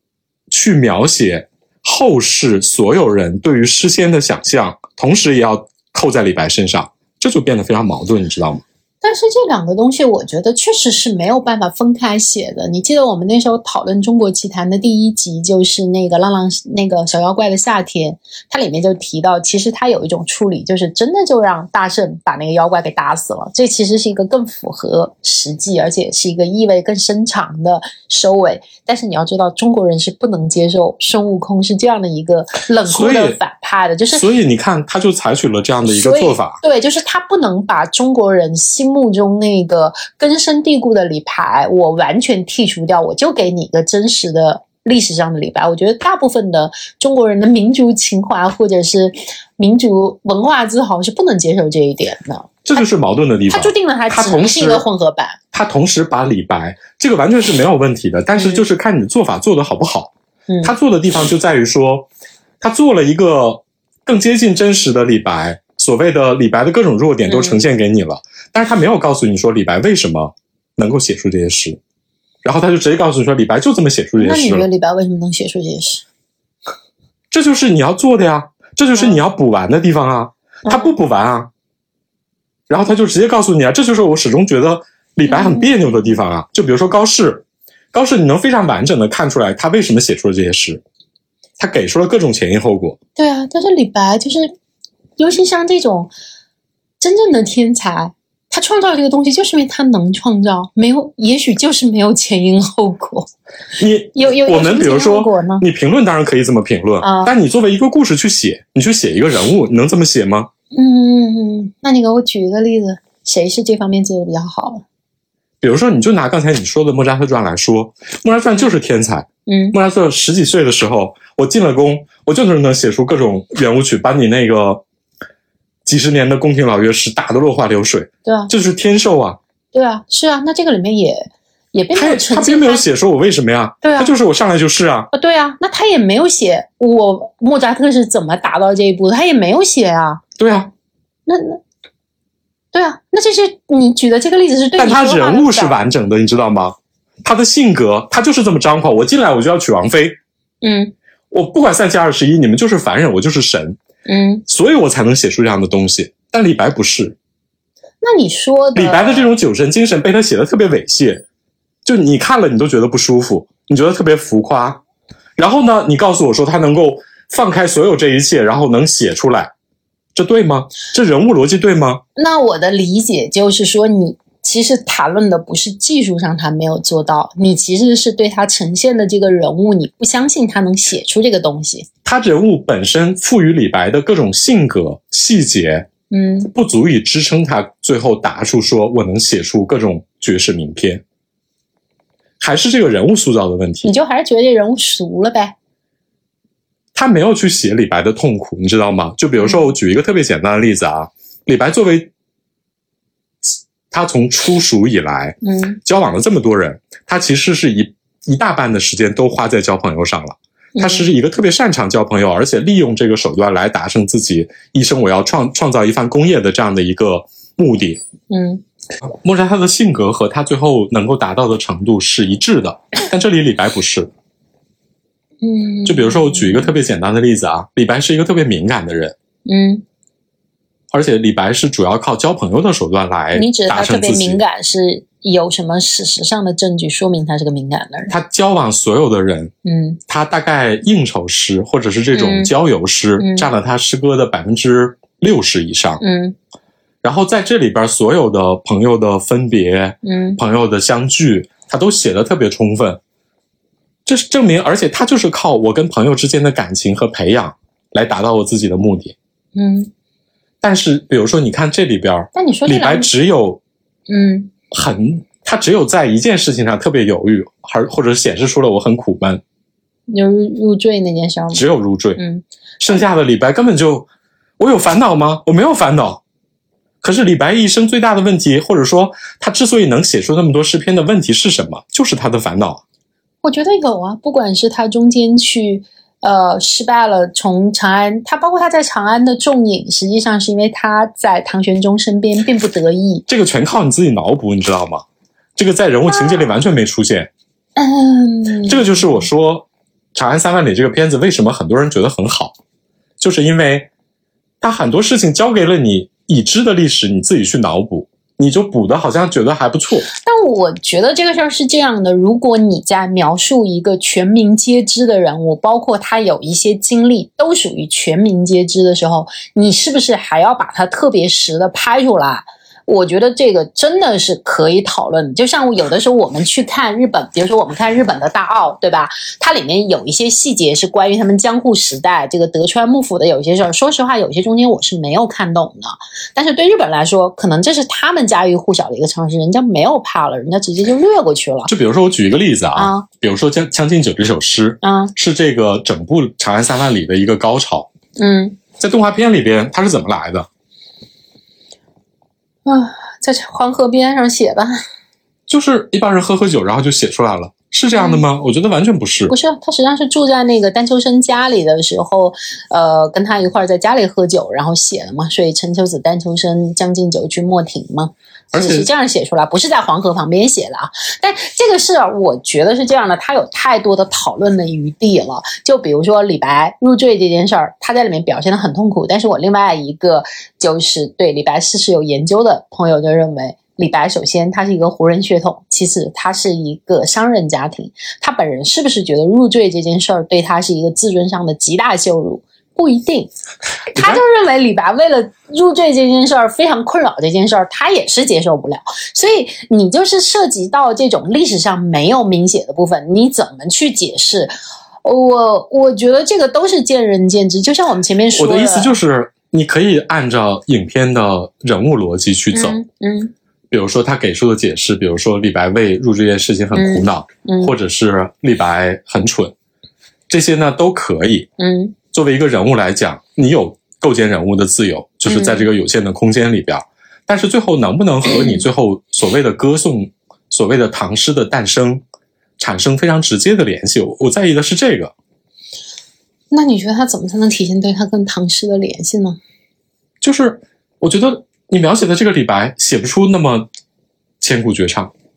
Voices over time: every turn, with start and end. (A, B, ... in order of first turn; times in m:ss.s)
0:00.5-0:08.6 A
0:09.0-0:34.2 B
0:32.8-0:33.4 A
0:34.1-0:36.6 A
0:35.9-0:52.8 B
0:52.6-0:54.8 A
0:53.5-0:55.4 B
0:55.5-1:02.1 A
0:58.4-0:58.6 B
1:02.6-1:11.8 A
1:07.3-1:07.6 B
1:12.4-1:14.6 A
1:14.2-1:16.0 B
1:17.3-1:21.5 A
1:20.6-1:20.9 B
1:22.7-1:30.8 A
1:25.3-1:25.9 B
1:31.6-1:33.0 A
1:33.2-1:34.5 B
1:35.2-1:36.1 B
1:37.0-1:43.3 B
1:43.8-1:50.5 A
1:44.1-1:45.6 B
1:47.0-1:47.3 B
1:50.7-1:54.8 B
1:55.6-2:04.8 A
1:59.5-1:59.8 B
2:05.9-2:09.4 A
2:08.2-2:08.5 B
2:09.7-2:12.8 B
2:11.9-2:15.1 A
2:13.8-2:14.1 B
2:15.1-2:20.2 B
2:20.4-2:20.7 A
2:21.3-2:21.6 B
2:22.7-2:25.8 B
2:24.8-2:30.2 A
2:30.6-2:30.9 B
2:31.3-2:33.8 A
2:34.1-2:34.4 B
2:34.5-2:37.2 A
2:38.0-2:39.3 B
2:38.7-2:41.2 A
2:41.8-2:44.8 A
2:45.4-2:49.5 A
2:50.1-2:52.0 A
2:52.2-3:01.9 B
3:02.0-3:05.9 A
3:06.1-3:06.5 B
3:06.5-3:11.0 A
3:12.4-3:13.9 A
3:13.8-3:15.5 B
3:16.9-3:22.1 A
3:19.4-3:19.7 B
3:23.4-3:38.0 A
3:25.4-3:25.8 B
3:30.7-3:31.1 B
3:38.3-3:38.6 B
3:39.2-3:44.1 A
3:45.4-3:46.8 B
3:45.8-3:49.1 A
3:49.4-3:49.8 B
3:50.9-3:54.4 A
3:53.3-3:58.1 B
3:58.1-3:59.5 A
3:59.6-4:00.0 B
4:00.1-4:06.0 A
4:02.1-4:02.5 B
4:03.2-4:03.5 B
4:06.0-4:06.4 B
4:07.0-4:13.0 A
4:10.0-4:10.4 B
4:14.0-4:19.1 A
4:19.6-4:19.9 B
4:20.6-4:23.6 A
4:22.3-4:23.1 B
4:24.1-4:24.5 B
4:24.7-4:29.4 A
4:30.1-4:31.6 B
4:31.5-4:32.2 A
4:32.2-4:32.4 B
4:32.8-4:34.1 A
4:34.6-4:36.2 A
4:37.0-4:42.8 A
4:43.4-4:53.2 B
4:53.3-4:55.0 A
4:55.6-4:57.3 A
4:56.1-4:56.5 B
4:57.8-4:59.2 B
4:58.6-5:02.5 A
5:03.2-5:03.9 A
5:04.6-5:10.0 A
5:10.2-5:41.7 B
5:41.7-5:47.9 A
5:42.8-5:43.0 B
5:44.8-5:45.1 B
5:48.2-5:48.6 B
5:48.8-5:50.5 A
5:52.6-5:54.7 B
5:55.5-5:59.3 A
5:57.9-5:58.2 B
5:59.3-6:33.3 B
6:08.5-6:08.9 A
6:33.9-6:44.5 B
6:34.0-6:34.2 A
6:45.0-6:48.9 B
6:48.4-6:52.8 A
6:52.5-6:53.3 B
6:53.7-6:59.5 A
6:56.7-6:57.7 B
7:00.3-7:01.5 A
7:01.6-7:01.9 B
7:02.1-7:12.0 A
7:05.3-7:05.7 B
7:08.2-7:08.6 B
7:12.6-7:15.1 A
7:16.5-7:19.4 B
7:20.2-7:23.7 A
7:24.4-7:25.1 A